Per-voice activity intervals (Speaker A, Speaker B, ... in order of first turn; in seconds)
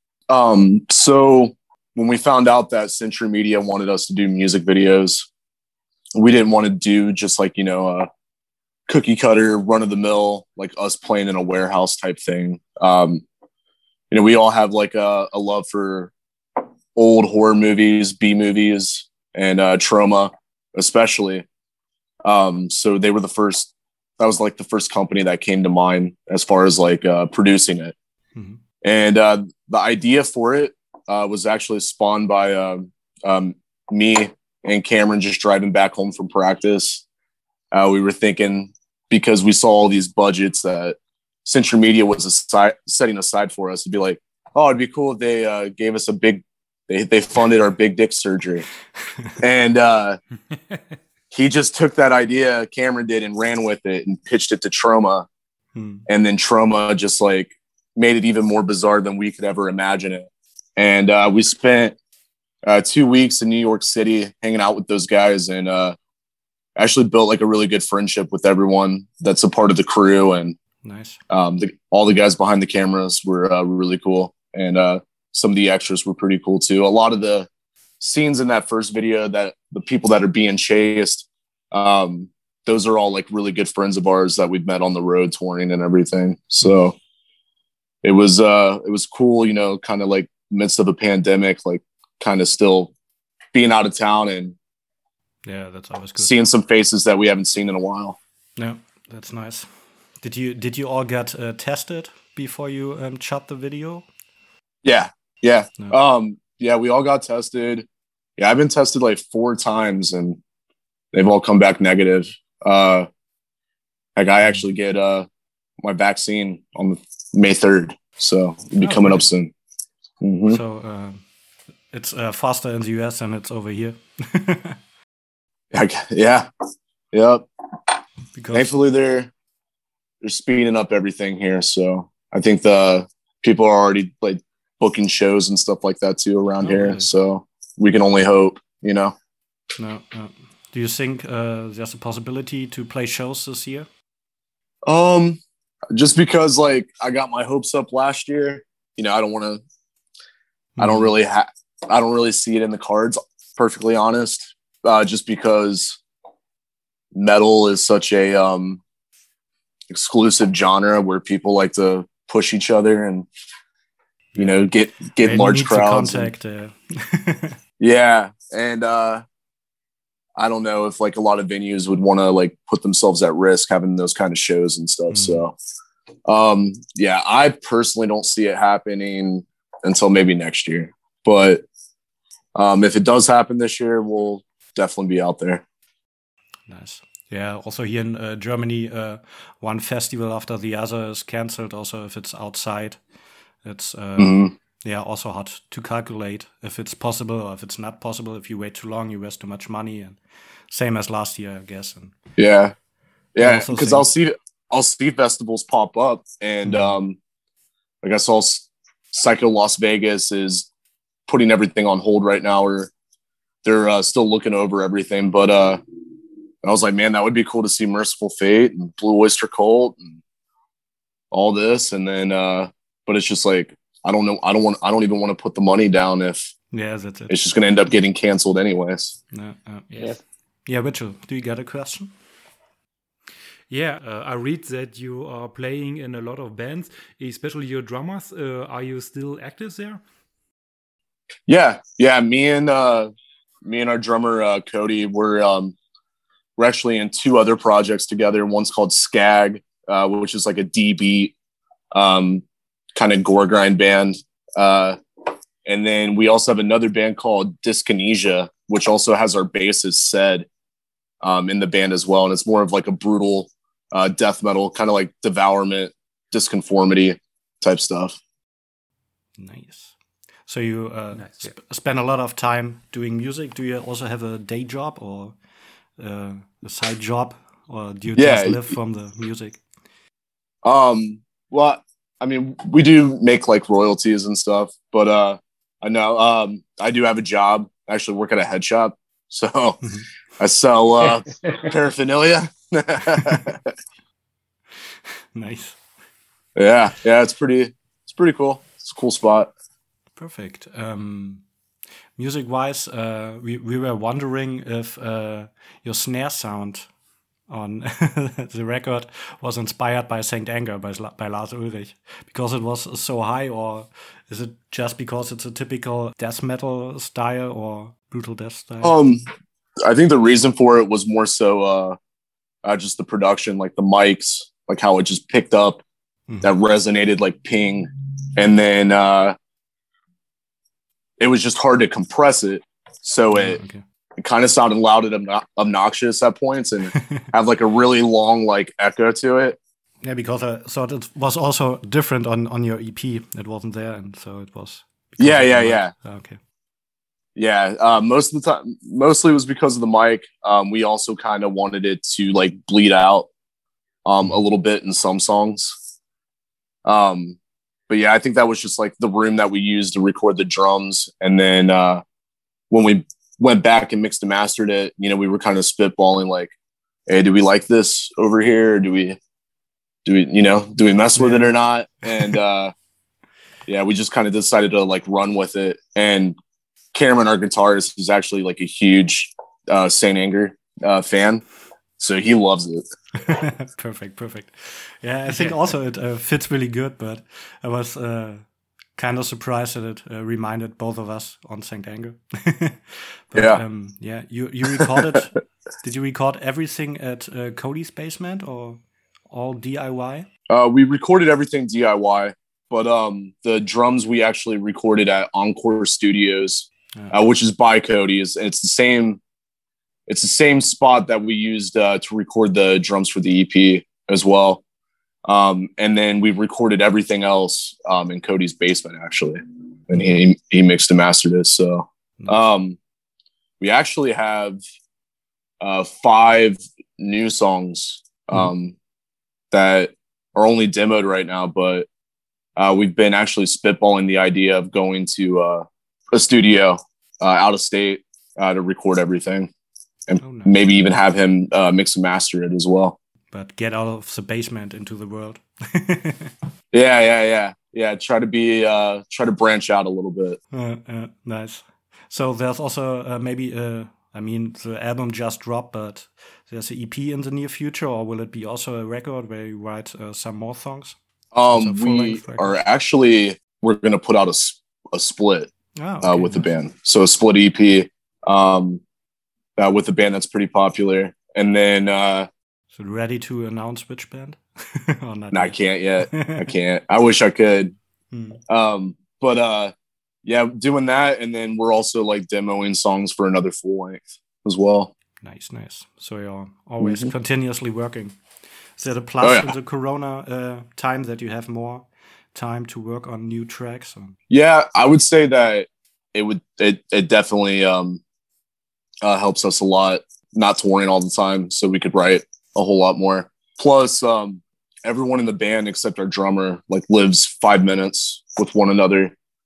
Speaker A: 0.3-5.3, 6.2-8.1, 8.9-13.2, 14.1-16.1, 16.9-21.4, 22.2-27.9, 28.8-37.0, 37.7-48.7, 49.4-50.2, 51.3-55.3, 56.1-62.0, 62.6-66.0, 66.8-70.5, 71.3-77.5, 78.0-87.0, 88.0-92.9, 93.5-94.5, 96.2-98.2, 104.8-107.8, 108.4-110.4, 111.1-113.1, 114.2-115.2, 115.8-119.5, 120.2-120.6, 125.7-126.5, 127.1-127.9, 128.5-129.3, 130.2-139.1, 144.8-145.4, 145.9-149.6, 150.8-156.0, 157.1-158.8, 159.9-163.3, 164.4-166.3, 167.8-169.2, 170.3-175.5, 176.3-181.6, 182.5-185.6, 194.2-194.5, 202.4-202.7, 203.3-207.2, 208.0-210.7, 211.3-212.9, 213.6-215.8, 216.6-220.2, 221.3-226.5, 227.3-229.1, 241.5-243.1, 243.6-245.7, 246.6-251.3, 251.9-252.4, 252.9-255.0, 255.6-260.5, 261.2-268.2, 278.1-278.7, 280.6-289.8, 290.4-293.7, 296.6-299.5, 318.8-319.2, 319.8-322.0, 322.6-325.8, 326.4-329.3, 331.2-333.6, 334.2-339.6, 345.2-345.9, 347.4-353.3, 354.0-355.8, 356.8-357.4, 357.9-362.0, 362.7-366.5, 367.1-369.2, 370.0-372.7, 373.7-376.3, 376.9-381.4, 382.0-382.8, 393.3-393.6, 394.7-395.2, 400.5-409.2, 410.1-414.6, 415.2-422.8, 423.6-424.6, 425.6-428.7, 429.5-431.9, 432.6-439.5, 440.1-442.9, 446.7-450.4, 461.3-465.5, 466.0-468.8, 469.6-472.3, 475.3-477.7, 478.5-479.7, 480.2-484.9, 486.8-487.1, 489.2-489.5, 494.3-498.0, 499.0-509.1
Speaker B: 28.3-28.6, 55.7-56.0, 70.8-71.2, 95.4-96.3, 98.6-99.7, 100.2-104.1, 118.8-119.2, 120.5-121.2, 121.9-124.8, 128.3-128.7, 136.6-137.1, 139.8-143.9, 150.8-151.1, 164.3-167.6, 175.1-175.4, 186.7-193.0, 193.6-200.2, 200.7-202.2, 203.4-204.1, 206.6-206.9, 226.7-227.4, 229.3-229.9, 230.7-232.1, 269.4-269.9, 270.5-275.4, 276.0-279.6, 289.8-290.1, 293.1-293.5, 295.3-295.8, 300.2-301.4, 302.2-306.9, 307.5-318.9, 333.3-333.8, 336.9-337.3, 340.0-346.4, 371.2-371.5, 383.2-388.4, 388.9-400.3, 440.2-440.6, 443.3-446.3, 450.5-461.0, 461.5-462.5, 465.8-466.5, 472.7-476.5, 478.1-478.4, 485.2-488.2, 488.8-494.2
Speaker C: 229.9-230.2, 233.7-240.0, 271.1-271.5